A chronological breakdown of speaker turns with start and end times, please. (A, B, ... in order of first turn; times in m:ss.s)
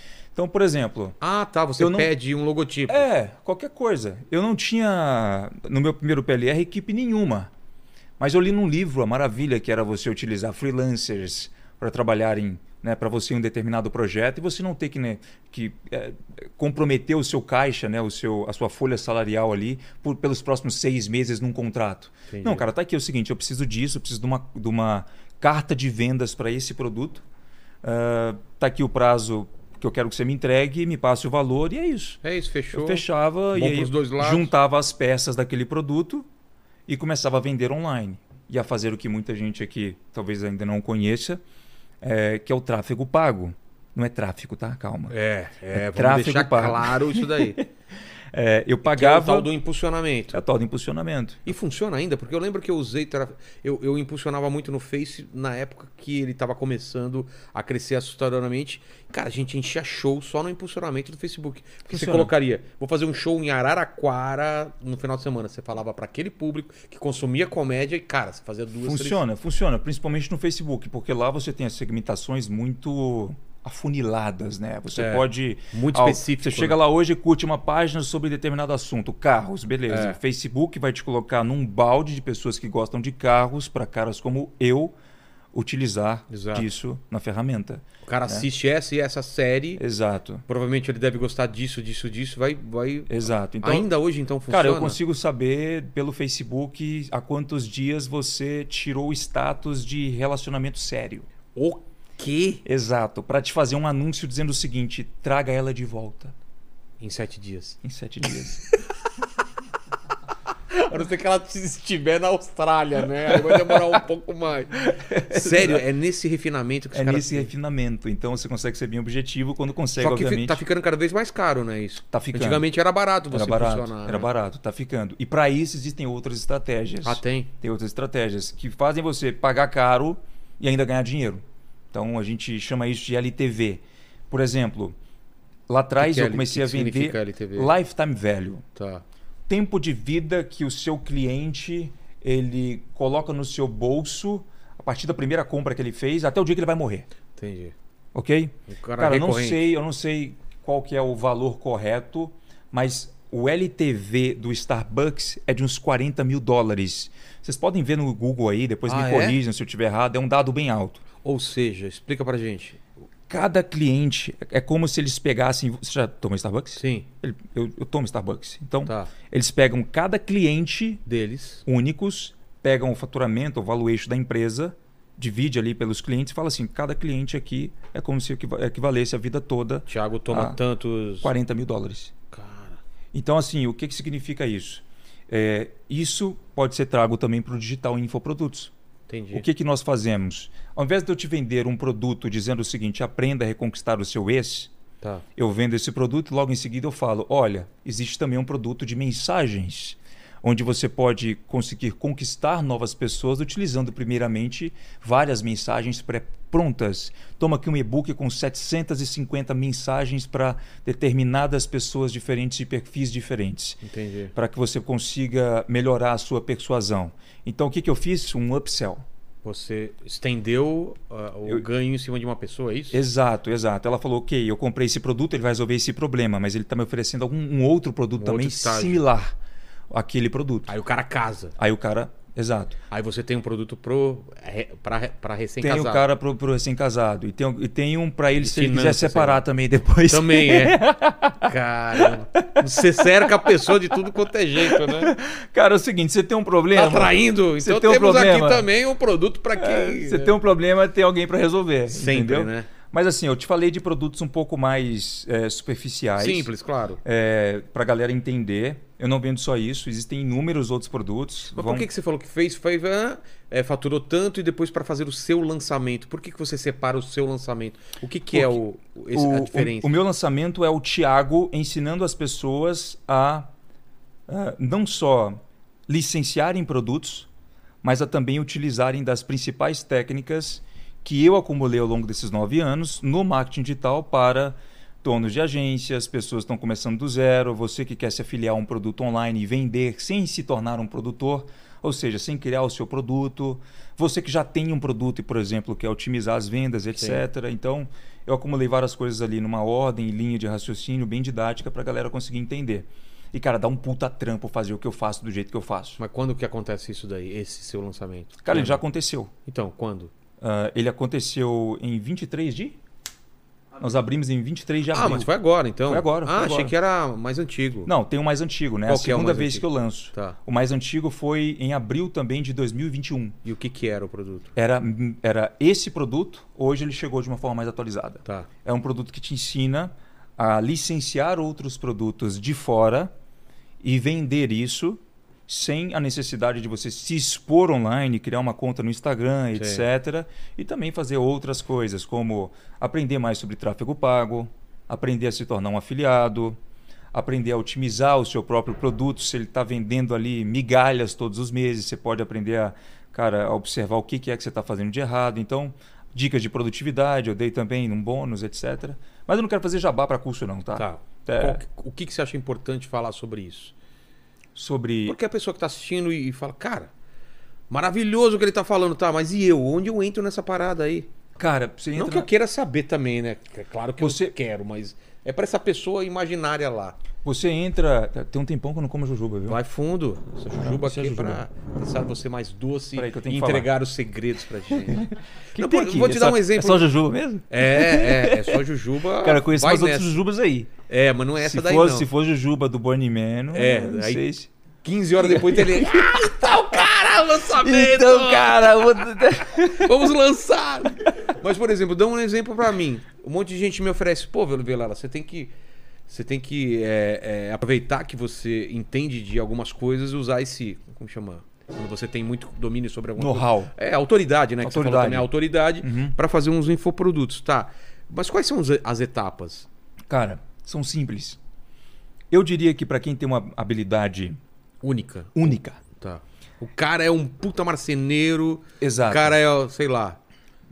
0:00.3-0:01.2 A
0:01.2-0:03.1 B
0:01.8-0:02.1 A
0:02.9-0:07.5 A
0:08.2-0:27.2 A
0:22.3-0:22.6 B
0:27.8-0:32.2 A
0:32.2-0:34.5 B
0:32.7-0:36.2 A
0:36.9-0:41.4 A
0:42.0-0:45.1 A
0:45.1-0:47.6 B
0:45.7-0:47.6 A
0:48.3-0:49.5 A
0:48.9-0:50.4 B
0:50.3-0:51.5 A
0:51.4-1:09.2 B
1:01.9-1:02.3 A
1:08.8-1:24.9 A
1:15.0-1:16.8 B
1:19.9-1:20.2 B
1:25.5-1:28.4 A
1:26.3-1:26.6 B
1:28.0-1:29.8 B
1:29.8-1:30.4 A
1:30.5-1:35.0 B
1:33.1-1:33.9 A
1:34.5-1:41.3 A
1:41.5-1:42.6 B
1:42.6-1:46.3 A
1:47.0-1:47.8 B
1:47.8-1:48.6 A
1:50.7-1:54.8 B
1:53.5-1:53.8 A
1:54.8-1:55.8 A
1:55.3-1:57.5 B
1:56.9-2:00.6 A
2:00.0-2:04.3 B
2:02.1-2:02.6 A
2:03.3-2:15.0 A
2:07.0-2:07.5 B
2:15.7-2:18.6 A
2:16.0-2:17.7 B
2:18.7-2:19.0 B
2:19.5-2:27.1 A
2:27.4-2:27.7 B
2:28.1-2:41.0 A
2:28.7-2:29.6 B
2:38.9-2:39.4 B
2:41.2-2:42.8 B
2:43.3-2:51.0 A
2:46.8-2:47.0 B
2:48.8-2:49.1 B
2:51.0-2:51.6 B
2:51.6-3:00.6 A
2:59.9-3:01.3 B
3:01.2-3:02.1 A
3:02.3-3:02.8 B
3:03.1-3:08.7 A
3:09.1-3:09.4 B
3:09.3-3:14.7 A
3:15.4-3:33.8 A
3:33.8-3:34.3 B
3:34.3-3:39.0 A
3:39.4-3:43.0 B
3:42.9-3:49.3 A
3:48.2-3:49.0 B
3:49.9-3:50.7 A
3:50.7-3:51.5 B
3:51.6-3:52.8 A
3:52.9-3:56.0 B
3:55.6-4:03.7 A
3:58.4-3:59.4 B
4:00.1-4:00.8 B
4:01.4-4:05.1 B
4:04.6-4:08.7 A
4:06.7-4:10.3 B
4:09.6-4:16.5 A
4:11.9-4:12.7 B
4:16.2-4:17.0 B
4:17.0-4:21.8 A
4:21.5-4:29.9 B
4:28.3-4:28.6 A
4:29.1-4:33.5 A
4:34.3-4:37.3 A
4:37.8-5:06.0 A
4:56.9-4:57.2 B
5:06.0-5:08.8 B
5:08.4-5:09.3 A
5:09.4-5:10.1 B
5:10.4-5:12.8 A
5:13.8-5:15.3 A
5:14.9-5:17.9 B
5:15.8-5:16.7 A
5:17.8-5:23.4 A
5:18.9-5:20.4 B
5:23.4-5:24.5 B
5:24.6-5:33.1 A
5:33.8-5:46.6 A
5:39.5-5:39.8 B
5:47.1-6:01.6 A
6:00.8-6:03.7 B
6:04.5-6:05.2 A
6:05.0-6:06.9 B
6:07.7-6:11.1 B
6:11.4-6:12.3 A
6:11.9-6:17.0 B
6:14.0-6:14.3 A
6:17.2-6:19.6 A
6:19.5-6:25.0 B
6:20.6-6:21.4 A
6:23.0-6:23.7 A
6:24.8-6:28.6 A
6:25.6-6:26.9 B
6:27.5-6:30.2 B
6:29.2-6:30.7 A
6:30.9-6:32.1 B
6:31.4-6:34.5 A
6:33.5-6:34.2 B
6:34.8-6:39.1 B
6:35.2-6:36.9 A
6:37.4-6:40.0 A
6:39.7-6:45.5 B
6:46.1-6:59.7 B
6:53.2-6:53.7 A
6:54.6-6:55.3 A
6:55.8-6:56.2 A
7:00.1-7:01.4 A
7:02.3-7:04.4 A
7:04.8-7:10.2 B
7:05.3-7:05.8 A
7:08.8-7:09.4 A